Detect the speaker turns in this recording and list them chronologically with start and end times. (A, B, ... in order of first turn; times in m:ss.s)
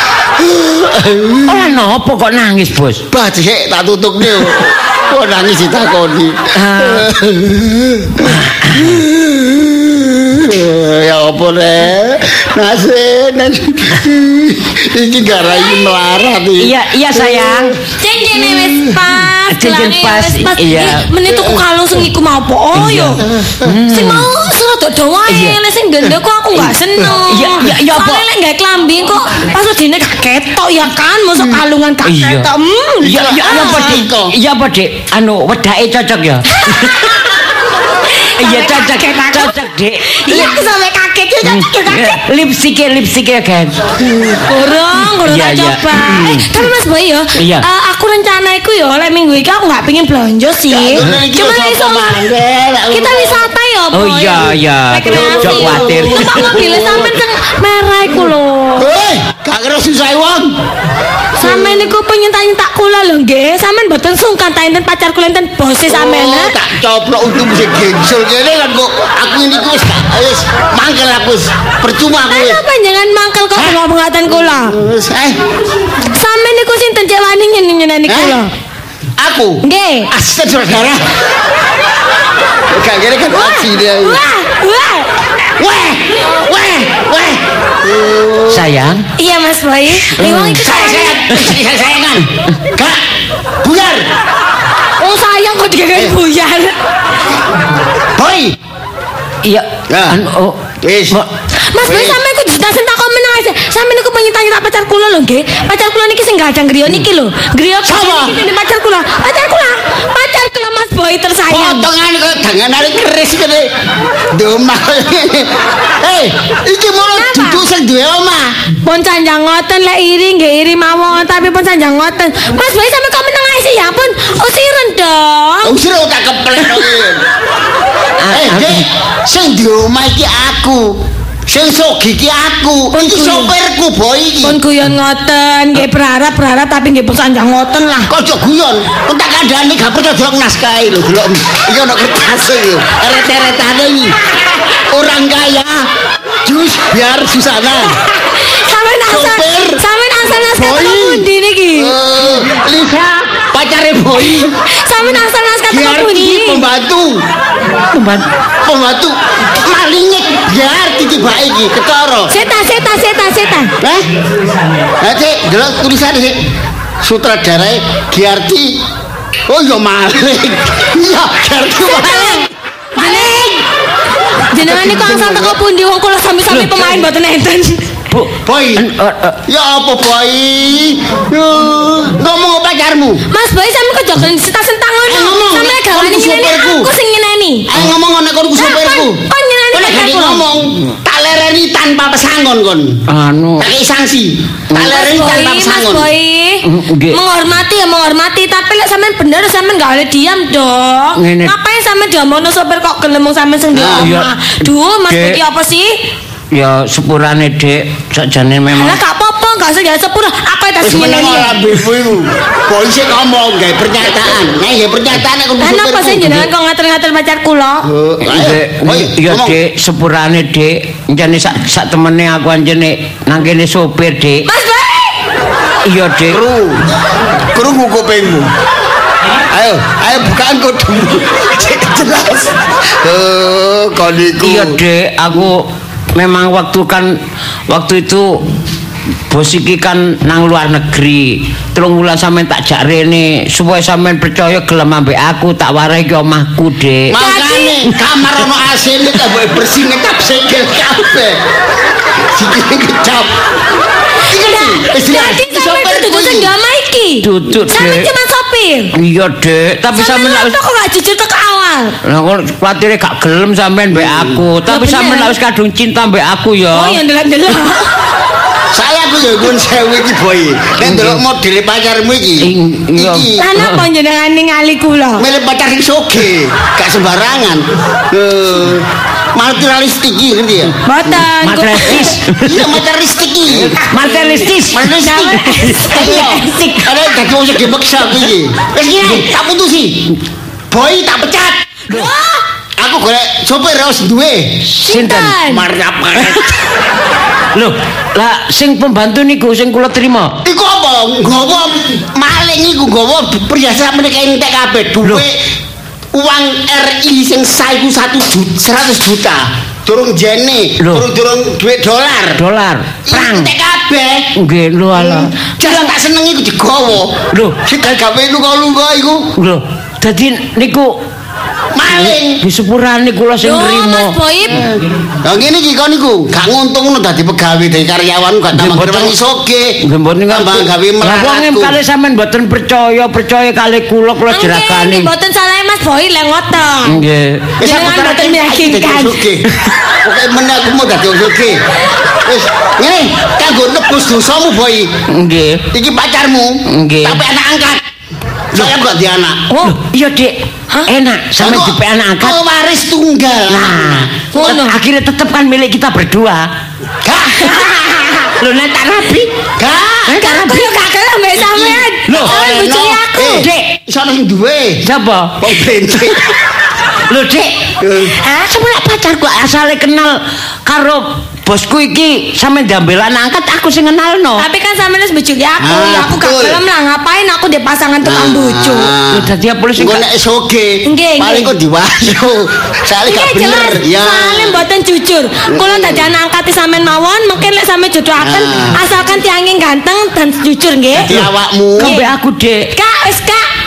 0:00.4-0:01.7 A
0:01.5-0:03.0 B
0:03.1-0:17.8 A
0:06.6-0:07.1 B
0:08.2-0:09.0 B
0:16.6-0:17.7 B
0:18.0-0:23.2 C
0:18.3-0:19.2 A
0:19.5-0:21.1 B
0:21.3-0:21.6 A
0:22.7-0:24.3 B
0:23.2-0:23.7 A
0:23.9-0:34.0 C
0:25.3-0:25.6 B
0:26.6-0:28.3 B
0:32.0-0:32.5 B
0:33.0-0:37.3 B
0:33.0-0:34.3 A
0:36.5-0:37.3 C
0:38.1-0:39.6 C
0:38.4-0:40.6 B
0:40.1-0:42.2 C
0:41.4-0:44.0 B
0:44.4-0:52.1 C
0:45.1-0:46.5 B
0:47.4-0:47.7 B
0:50.7-0:53.5 A
0:52.9-0:58.9 C
0:53.9-0:56.6 B
0:55.1-0:57.1 A
0:58.8-1:00.6 A
1:01.4-1:06.6 C
1:01.4-1:01.8 A
1:05.9-1:12.6 A
1:12.3-1:14.7 C
1:14.4-1:15.4 A
1:16.1-1:18.5 C
1:18.1-1:18.4 A
1:19.2-1:21.0 A
1:19.6-1:20.1 C
1:22.7-1:24.2 A
1:23.3-1:25.1 C
1:25.6-1:28.7 A
1:28.5-1:29.0 B
1:29.2-1:31.2 C
1:30.0-1:33.0 A
1:33.6-1:34.1 A
1:35.0-1:36.8 C
1:38.2-1:38.6 A
1:39.4-1:40.6 B
1:39.9-1:40.2 A
1:40.8-1:41.2 A
1:41.7-1:51.9 C
1:41.8-1:42.2 A
1:47.8-1:48.4 A
1:51.5-1:53.7 A
1:54.3-1:58.6 A
1:57.2-1:57.6 C
1:58.8-2:05.8 C
2:05.6-2:07.2 A
2:08.2-2:08.8 B
2:08.3-2:11.0 A
2:11.5-2:14.6 A
2:12.9-2:13.5 C
2:14.4-2:18.1 C
2:18.1-2:24.2 A
2:24.9-2:25.9 A
2:26.5-2:28.0 A
2:27.8-2:32.0 C
2:29.1-2:29.8 A
2:30.4-2:31.2 A
2:31.8-2:34.5 A
2:34.6-2:36.7 C
2:35.7-2:37.2 A
2:37.9-2:38.3 B
2:38.6-2:42.3 A
2:42.3-2:43.7 C
2:43.8-2:44.1 A
2:45.0-2:46.4 A
2:47.0-2:48.8 A
2:49.5-2:52.5 A
2:51.9-2:53.6 C
2:53.0-2:53.6 A
2:54.5-2:57.8 C
2:54.6-2:55.6 A
2:56.5-2:57.1 B
2:58.1-2:59.4 B
2:58.4-2:58.9 A
2:59.5-3:03.2 A
3:03.3-3:07.7 C
3:05.1-3:06.9 A
3:07.7-3:09.2 A
3:08.6-3:10.4 C
3:09.7-3:13.0 A
3:13.1-3:13.7 B
3:13.6-3:16.1 A
3:14.7-3:15.0 B
3:14.8-3:25.9 C
3:16.6-3:17.2 B
3:21.2-3:21.5 B
3:23.7-3:24.1 A
3:24.0-3:24.3 B
3:25.1-3:25.4 B
3:26.5-3:29.0 B
3:28.7-3:31.6 C
3:30.8-3:36.5 A
3:35.6-3:37.9 C
3:37.9-3:39.6 A
3:38.2-3:44.5 B
3:44.5-3:45.2 C
3:45.9-3:46.4 B
3:46.3-3:46.9 A
3:47.5-3:48.5 A
3:49.5-3:54.8 A
3:54.4-3:57.1 B
3:57.7-3:58.3 B
3:59.3-4:07.1 B
4:07.1-4:11.4 A
4:07.1-4:07.8 C
4:12.3-4:13.3 A
4:14.3-4:16.5 A
4:14.3-4:18.9 C
4:17.2-4:18.1 B
4:18.9-4:20.6 B
4:20.0-4:22.0 C
4:22.0-4:27.0 B
4:23.9-4:24.4 A
4:24.7-4:25.3 C
4:26.7-4:27.9 C
4:28.7-4:33.5 A
4:30.8-4:31.2 B
4:32.4-4:33.8 B
4:33.4-4:35.2 C
4:35.2-4:40.7 A
4:40.9-4:42.2 C
4:41.4-4:42.8 B
4:42.4-4:50.1 A
4:43.5-4:46.2 B
4:44.8-4:47.0 C
4:50.7-4:51.8 A
4:51.9-4:52.4 C
4:52.8-4:54.6 A
4:54.7-4:55.4 B
4:54.8-4:55.6 C
4:55.4-4:56.5 A
4:56.2-4:56.5 B
4:57.5-5:00.4 B
5:00.4-5:05.4 A
5:06.1-5:12.4 A
5:10.8-5:11.1 B
5:12.4-5:13.5 B
5:13.1-5:14.3 A
5:14.4-5:15.3 B
5:15.0-5:19.3 A
5:17.3-5:17.6 B
5:19.4-5:20.9 B
5:21.8-5:22.4 A
5:21.9-5:24.2 B
5:23.4-5:24.8 C
5:25.2-5:31.8 A
5:28.5-5:29.2 B
5:29.8-5:35.1 B
5:34.3-5:37.0 C
5:36.9-5:37.5 B
5:37.6-5:39.5 A
5:37.6-5:39.2 C
5:40.0-5:41.6 A
5:42.2-5:44.9 A
5:45.1-5:45.6 B
5:45.7-5:47.8 A
5:46.7-5:47.2 B
5:48.5-5:49.4 A
5:49.5-5:49.8 C
5:49.6-5:50.4 B
5:50.9-5:52.4 B
5:51.4-5:54.6 A
5:53.5-5:56.4 B
5:54.3-5:54.8 C
5:57.0-5:58.1 A
5:58.2-5:59.3 B
5:59.6-6:00.5 A
6:00.1-6:00.7 B
6:00.1-6:03.5 C
6:01.3-6:04.8 A
6:02.1-6:02.4 B
6:03.2-6:03.7 B
6:04.8-6:05.4 B
6:05.4-6:06.4 A
6:07.1-6:07.5 B
6:07.8-6:08.2 A
6:08.0-6:14.4 B
6:14.4-6:18.9 C
6:15.6-6:16.6 A
6:18.0-6:24.6 A
6:19.1-6:20.0 B
6:20.9-6:21.5 C
6:23.1-6:31.1 C
6:25.5-6:26.1 A
6:28.2-6:28.8 A
6:31.0-6:32.0 A
6:31.1-6:32.7 B
6:31.8-6:32.0 C
6:32.7-6:33.5 C